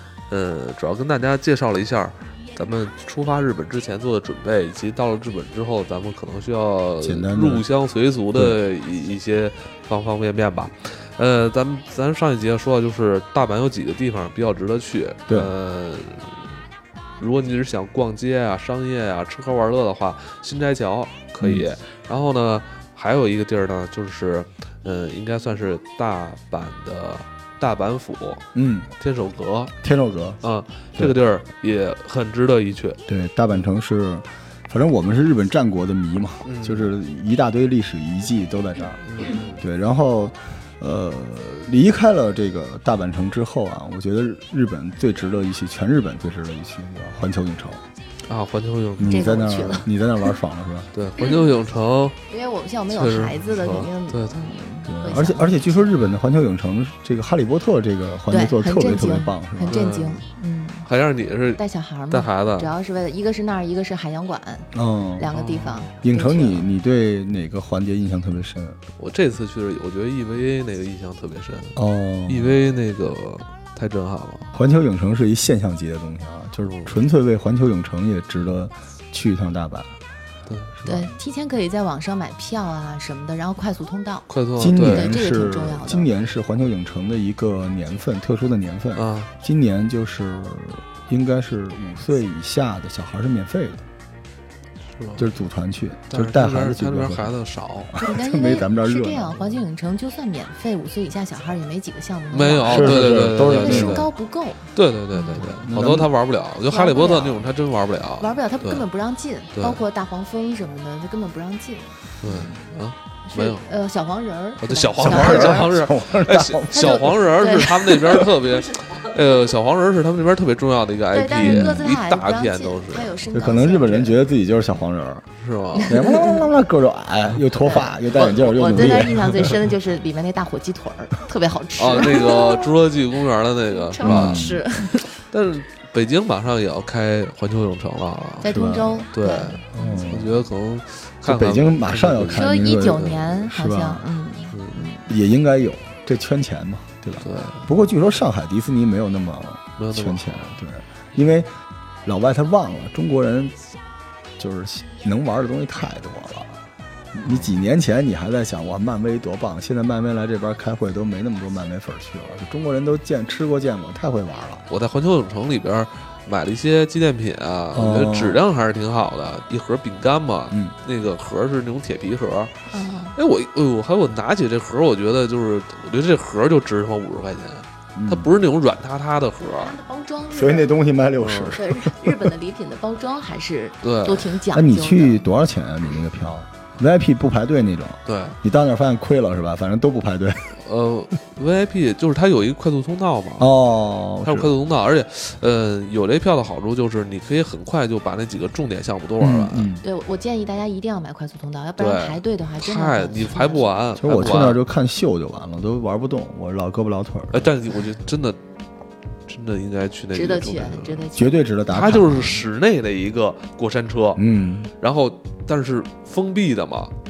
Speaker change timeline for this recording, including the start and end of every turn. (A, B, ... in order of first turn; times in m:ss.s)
0:00.3-0:16.6 A
0:07.0-0:07.6 B
0:08.3-0:08.6 B
0:17.2-0:28.5 A
0:21.4-0:21.7 B
0:28.5-0:28.9 B
0:29.0-0:29.7 A
0:29.8-0:30.4 B
0:30.4-0:33.0 A
0:33.1-0:47.8 B
0:36.4-0:36.9 A
0:39.0-0:39.6 A
0:48.2-0:49.2 A
0:49.0-0:50.9 B
0:49.1-0:49.9 C
0:50.9-0:52.2 A
0:51.2-0:51.5 C
0:52.3-0:56.0 C
0:52.9-0:54.5 A
0:54.9-0:59.8 B
0:58.3-1:00.9 C
0:59.6-1:00.2 A
1:00.8-1:02.7 A
1:01.6-1:06.7 C
1:04.7-1:05.3 B
1:05.3-1:06.0 A
1:06.0-1:08.8 B
1:09.0-1:14.5 A
1:11.8-1:12.6 B
1:14.5-1:19.9 B
1:20.5-1:20.7 A
1:20.8-1:21.1 B
1:20.8-1:26.1 C
1:24.3-1:25.2 A
1:24.6-1:33.8 B
1:29.0-1:29.3 A
1:35.0-1:35.3 A
1:35.2-1:37.4 B
1:36.1-1:38.0 A
1:37.9-1:39.4 B
1:38.0-1:45.4 C
1:42.3-1:44.1 A
1:42.7-1:44.1 B
1:44.7-1:48.8 A
1:45.4-1:46.1 B
1:46.7-1:47.4 C
1:48.2-1:51.9 C
1:49.6-1:49.8 A
1:52.2-1:53.7 A
1:52.2-1:52.6 B
1:53.2-1:55.7 C
1:54.6-2:03.2 A
1:55.0-1:57.2 B
1:56.7-1:58.2 C
1:57.9-1:58.3 B
2:01.1-2:04.2 C
2:01.4-2:01.8 B
2:03.3-2:05.3 B
2:05.4-2:06.0 A
2:05.8-2:06.4 C
2:05.8-2:09.4 B
2:07.6-2:12.6 C
2:08.3-2:09.5 A
2:11.8-2:14.5 A
2:13.8-2:15.1 C
2:14.0-2:14.6 B
2:15.2-2:18.6 A
2:18.4-2:20.0 C
2:18.4-2:19.1 B
2:19.1-2:23.2 A
2:19.7-2:20.4 B
2:21.2-2:24.1 B
2:22.3-2:25.1 C
2:24.5-2:24.8 A
2:25.1-2:33.5 B
2:27.2-2:27.7 A
2:29.8-2:30.6 A
2:34.4-2:36.5 B
2:37.1-2:44.6 B
2:37.2-2:37.5 A
2:44.7-2:52.5 A
2:47.7-2:48.4 B
2:52.7-2:53.2 C
2:53.1-2:59.8 A
2:58.0-2:58.3 B
2:59.5-3:00.7 C
3:00.3-3:02.1 B
3:01.2-3:01.6 A
3:01.5-3:05.2 C
3:03.8-3:04.3 A
3:04.5-3:10.6 B
3:08.0-3:08.4 A
3:10.6-3:13.5 A
3:13.4-3:14.5 B
3:14.2-3:19.7 A
3:19.2-3:19.8 B
3:19.8-3:23.7 C
3:21.8-3:24.6 A
3:24.0-3:27.5 B
3:27.3-3:28.4 A
3:29.3-3:31.1 A
3:30.1-3:31.4 C
3:31.2-3:32.4 B
3:31.7-3:34.2 A
3:34.2-3:34.7 B
3:34.8-3:36.9 A